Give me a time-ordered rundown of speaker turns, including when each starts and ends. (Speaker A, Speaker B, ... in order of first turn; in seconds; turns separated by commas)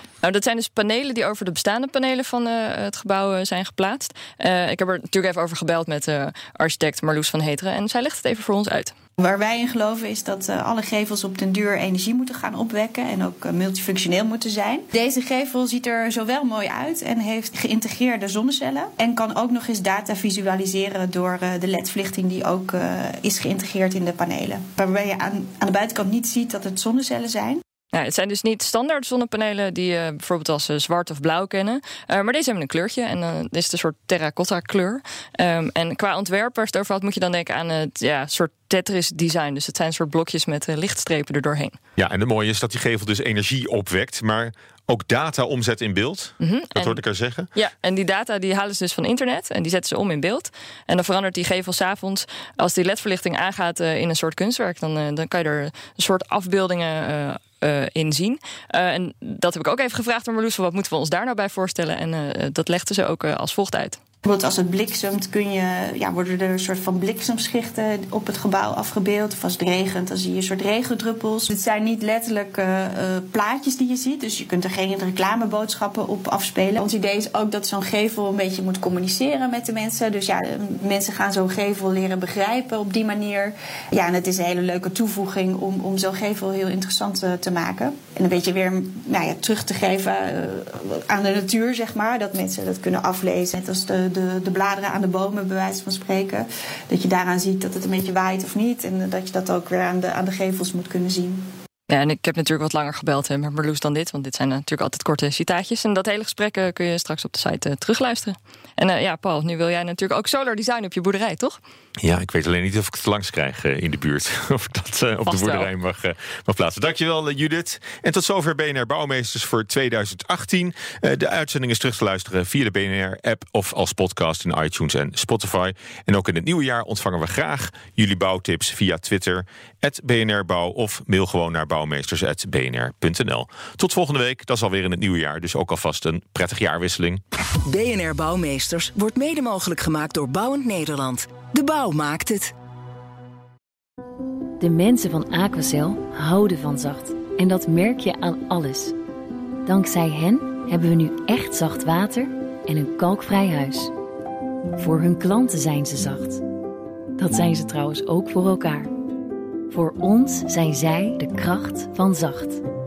Speaker A: 0.2-8.9, Speaker B: 9.2-27.6, Speaker A: 27.9-41.8, Speaker C: 42.0-47.5, Speaker A: 46.4-47.0, Speaker A: 47.5-64.0, Speaker B: 64.2-101.5, Speaker A: 101.9-111.6, Speaker C: 112.0-137.2, Speaker A: 115.2-115.7, Speaker D: 137.7-142.5, Speaker E: 144.6-148.9, Speaker E: 149.6-153.9, Speaker E: 154.8-156.4, Speaker E: 157.2-158.9, Speaker E: 159.7-162.6